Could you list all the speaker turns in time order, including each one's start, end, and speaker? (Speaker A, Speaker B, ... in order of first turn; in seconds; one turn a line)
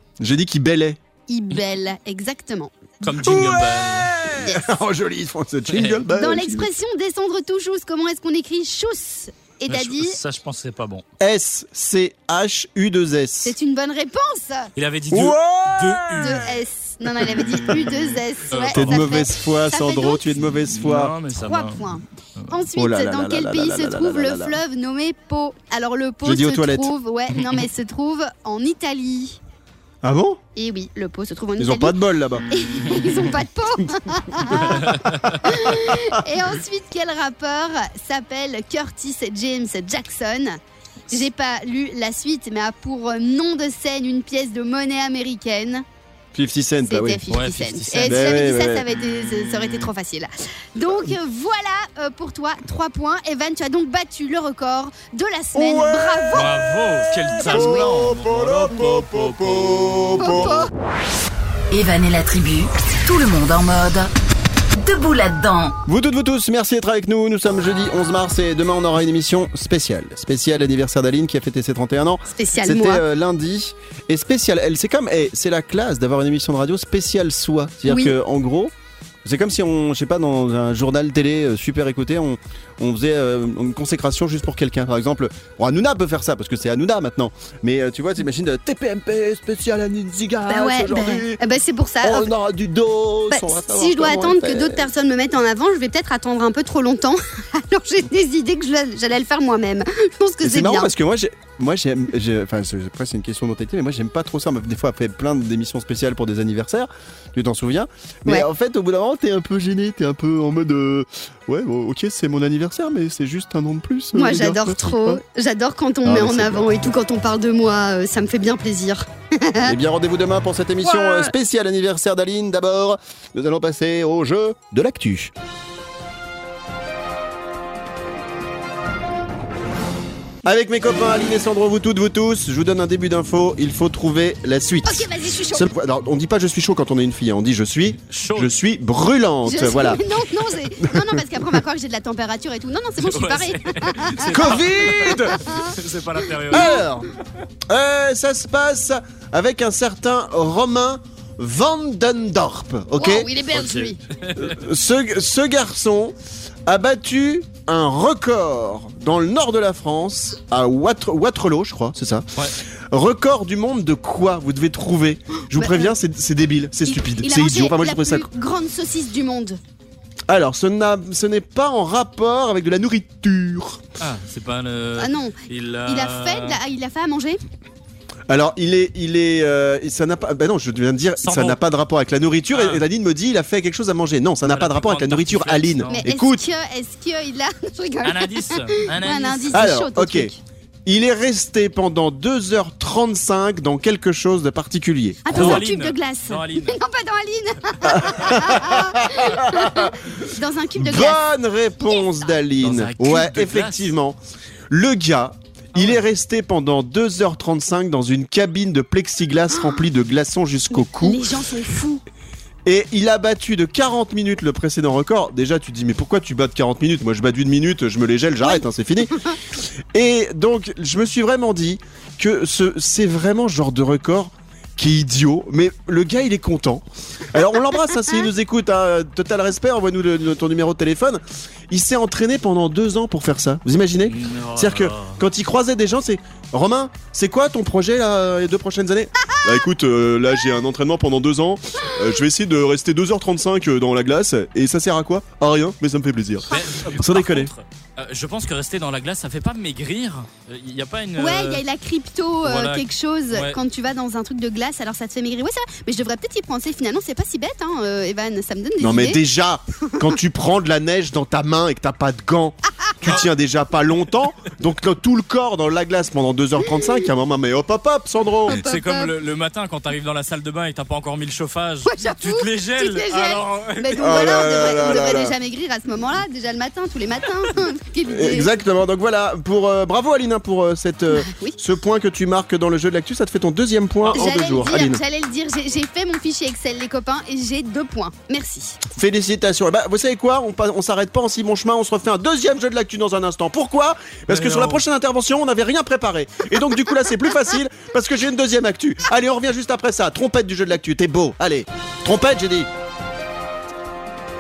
Speaker A: 0.2-1.0
Speaker B: 1.3-2.7
Speaker C: 3.0-4.2
Speaker A: 3.2-6.7
Speaker B: 4.4-4.8
Speaker C: 5.7-6.0
Speaker B: 6.1-10.2
Speaker C: 9.7-11.1
Speaker A: 11.2-13.6
Speaker B: 13.4-14.7
Speaker C: 14.8-16.5
Speaker A: 15.1-16.4
Speaker B: 16.2-20.5
Speaker A: 17.2-17.6
Speaker C: 17.6-18.0
Speaker C: 18.5-19.0
Speaker A: 18.7-21.1
Speaker C: 20.7-22.5
Speaker B: 21.4-29.4
Speaker A: 22.8-24.6
Speaker A: 26.2-26.9
Speaker A: 30.0-30.4
Speaker B: 30.6-32.0
Speaker A: 31.6-33.0
Speaker B: 32.5-45.9
Speaker A: 34.5-35.1
Speaker C: 34.9-35.4
Speaker A: 35.7-36.1
Speaker A: 46.3-47.2
Speaker B: 46.9-56.5
Speaker C: 47.3-48.4
Speaker A: 48.0-48.9
Speaker A: 55.5-56.5
Speaker C: 56.3-60.4
Speaker A: 57.0-60.7
Speaker B: 57.4-57.9
Speaker B: 60.2-60.7
Speaker D: 61.7-64.1
Speaker D: 64.8-65.8
Speaker A: 65.9-78.7
Speaker B: 72.3-73.0
Speaker B: 77.9-78.2
Speaker A: 79.2-91.4
Speaker B: 90.5-92.3
Speaker A: 92.0-94.9
Speaker B: 93.3-100.9
Speaker A: 100.4-115.2
Speaker B: 114.2-119.7
Speaker A: 116.0-117.0
Speaker A: 119.7-125.3
Speaker B: 120.8-121.3
Speaker A: 130.4-140.2
Speaker B: 134.8-135.7
Speaker C: 138.1-138.5
Speaker B: 139.4-145.8
Speaker A: 140.8-141.2
Speaker C: 143.0-146.8
Speaker A: 144.3-145.5
Speaker B: 146.5-146.9
Speaker A: 146.5-147.1
Speaker A: 147.7-153.3
Speaker B: 153.0-154.0
Speaker C: 153.5-154.6
Speaker A: 154.4-156.2
Speaker A: 156.7-168.3
Speaker B: 165.5-165.9
Speaker B: 166.9-169.6
Speaker A: 170.3-173.8
Speaker C: 174.0-176.6
Speaker B: 175.0-177.4
Speaker A: 178.3-186.4
Speaker C: 181.2-181.6
Speaker C: 182.5-182.8
Speaker C: 184.4-186.1
Speaker B: 185.9-190.4
Speaker C: 188.0-189.7
Speaker A: 189.5-190.3
Speaker A: 190.9-195.6
Speaker B: 195.2-201.2
Speaker C: 195.3-196.8
Speaker A: 197.8-200.1
Speaker A: 200.8-204.2
Speaker C: 202.6-203.9
Speaker A: 204.7-211.2
Speaker C: 205.7-206.0
Speaker B: 210.7-212.0
Speaker A: 212.7-219.2
Speaker A: 219.9-247.5
Speaker C: 234.1-235.2
Speaker C: 246.5-251.6
Speaker B: 251.2-259.2
Speaker C: 252.4-253.6
Speaker A: 258.8-268.6
Speaker B: 268.5-269.1
Speaker C: 268.6-274.5
Speaker B: 271.9-278.5
Speaker A: 274.0-275.3
Speaker A: 278.1-285.0
Speaker B: 281.1-281.6
Speaker C: 284.1-284.3
Speaker B: 284.1-288.8
Speaker A: 288.9-302.7
Speaker C: 294.3-294.8